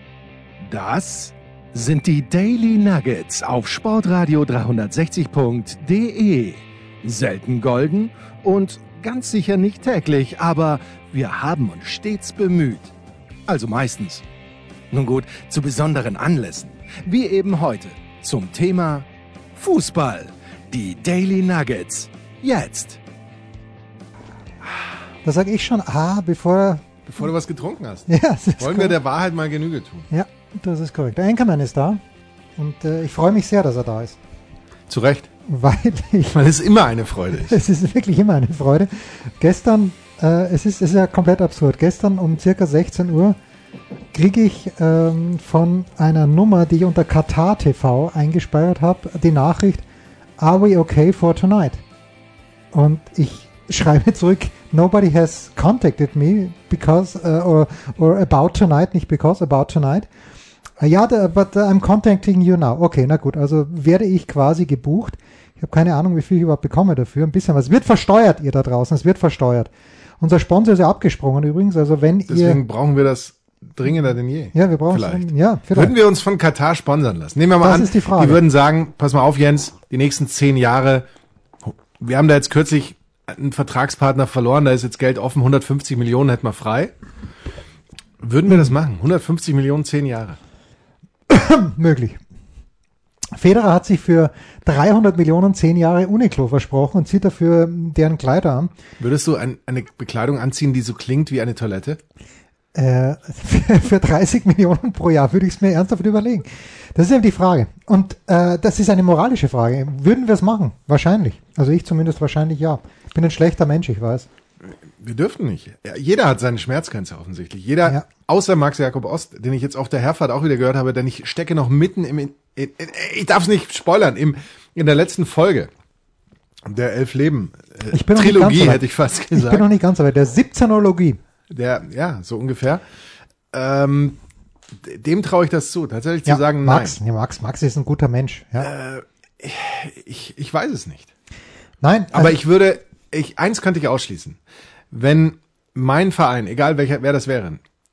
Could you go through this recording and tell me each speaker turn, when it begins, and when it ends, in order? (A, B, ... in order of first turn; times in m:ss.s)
0:00.6-0:12.9 A
0:13.5-0:14.2 A
0:14.9-0:23.0 A
0:25.2-0:26.8 B
0:27.0-0:30.1 C
0:28.1-0:29.0 B
0:30.1-0:32.0 B
0:32.6-0:34.2 B
0:34.9-0:35.3 C
0:35.5-0:36.4 B
0:36.3-0:37.6 C
0:37.3-0:43.4 B
0:44.1-0:49.8 B
0:50.4-0:51.8 B
0:52.7-1:00.1 B
1:00.8-1:09.7 B
1:10.2-1:12.6 B
1:12.3-1:21.1 C
1:14.5-1:15.9 B
1:17.6-1:18.4 B
1:21.6-1:26.9 C
1:28.2-1:30.4 C
1:31.3-1:32.2 B
1:33.4-1:38.7 B
1:39.0-1:42.0 C
1:42.8-1:54.3 B
1:54.9-2:05.7 C
2:06.6-2:09.7 C
2:07.9-2:11.2 B
2:11.5-2:12.8 C
2:13.5-2:14.2 C
2:14.8-2:17.0 C
2:16.3-2:18.7 B
2:18.6-2:21.1 C
2:21.8-2:22.4 B
2:22.1-2:24.4 C
2:24.9-2:27.6 C